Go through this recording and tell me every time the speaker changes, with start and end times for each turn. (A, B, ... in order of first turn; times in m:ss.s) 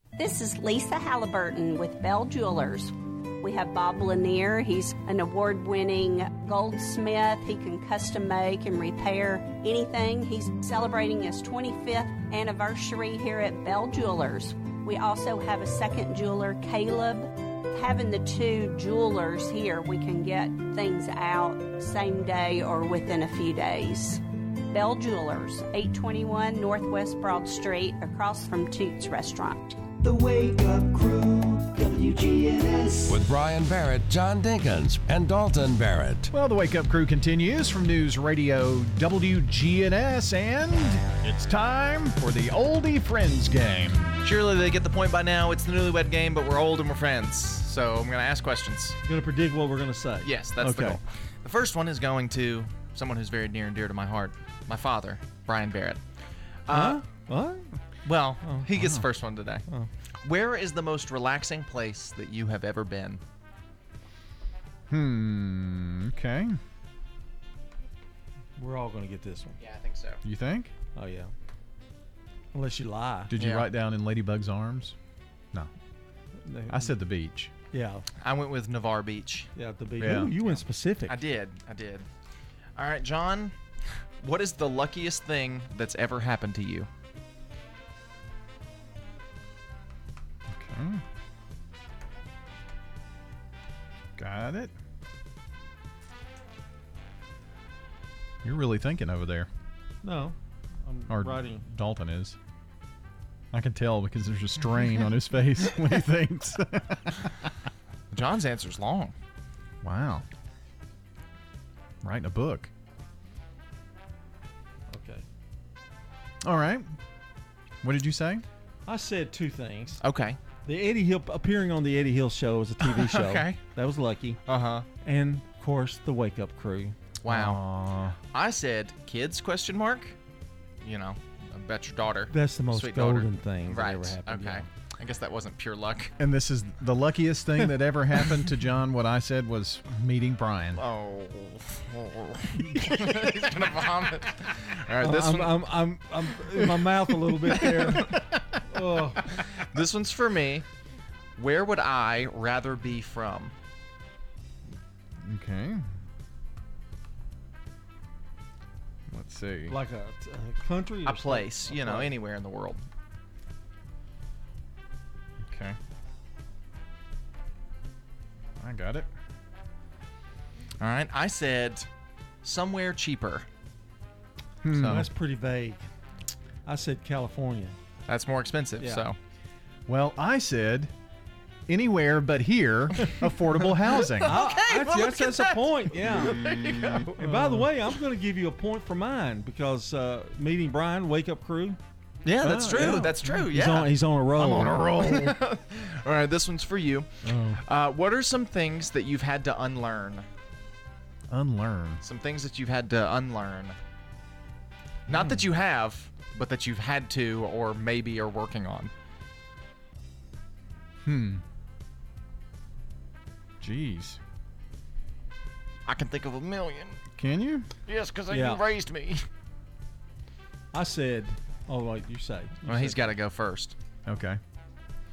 0:00.2-0:29.8 A
0:29.9-0:33.2 B
0:33.1-0:36.3 C
0:36.3-0:44.1 D
0:44.2-0:49.0 E
0:49.1-0:51.0 F
0:50.2-0:56.0 E
0:56.7-0:57.0 E
0:56.7-0:57.7 F
0:58.0-0:59.7 E
0:58.4-0:58.7 F
1:00.2-1:03.2 E
1:04.9-1:06.6 D
1:08.6-1:09.6 F
1:09.6-1:10.2 E
1:10.2-1:10.7 D
1:11.0-1:11.3 F
1:12.5-1:13.3 F
1:13.3-1:15.0 D
1:13.4-1:13.7 E
1:16.4-1:16.9 F
1:16.7-1:17.5 D
1:17.7-1:18.0 F
1:18.2-1:19.5 E
1:19.6-1:21.2 F
1:20.0-1:20.3 D
1:20.4-1:22.1 E
1:22.8-1:23.6 E
1:24.2-1:26.9 E
1:30.5-1:31.0 D
1:34.2-1:34.7 D
1:38.4-1:39.5 D
1:40.0-1:41.6 F
1:41.1-1:42.4 D
1:43.5-1:47.2 D
1:48.1-1:49.2 E
1:49.8-1:50.2 D
1:52.0-1:52.7 D
1:54.9-1:55.2 F
1:56.4-1:56.9 D
1:57.8-1:58.4 D
1:58.9-2:00.0 F
2:00.0-2:00.4 E
2:00.6-2:04.4 F
2:02.8-2:03.6 E
2:04.4-2:04.8 E
2:05.0-2:07.0 F
2:07.2-2:07.6 E
2:07.3-2:08.2 D
2:08.3-2:10.2 E
2:10.8-2:16.1 E
2:12.3-2:14.6 F
2:16.2-2:20.8 D
2:20.8-2:25.6 E
2:25.0-2:28.2 F
2:27.6-2:28.2 E
2:28.7-2:29.3 F
2:29.4-2:30.6 E
2:31.4-2:33.5 E
2:35.2-2:35.8 D
2:39.1-2:39.8 D
2:39.7-2:42.1 F
2:41.1-2:42.8 E
2:45.4-2:45.8 D
2:48.6-2:49.1 D
2:50.8-2:51.9 E
2:52.4-2:53.4 E
2:54.6-2:55.0 D
2:54.7-2:55.1 E
2:54.8-2:55.8 F
2:56.7-2:57.7 F
2:58.1-2:59.2 E
2:59.9-3:00.9 D
3:01.7-3:04.4 D
3:04.1-3:07.6 E
3:04.2-3:06.5 F
3:06.2-3:07.1 D
3:07.2-3:11.8 F
3:12.2-3:20.3 E
3:12.4-3:13.3 D
3:12.5-3:15.3 F
3:17.3-3:17.6 F
3:21.3-3:22.0 D
3:22.0-3:23.8 E
3:25.1-3:28.9 E
3:25.1-3:25.4 D
3:31.0-3:31.4 D
3:33.6-3:34.2 D
3:35.9-3:37.0 E
3:37.2-3:37.7 D
3:37.9-3:39.2 E
3:38.3-3:38.6 F
3:40.7-3:43.0 F
3:42.7-3:43.7 E
3:44.1-3:44.4 D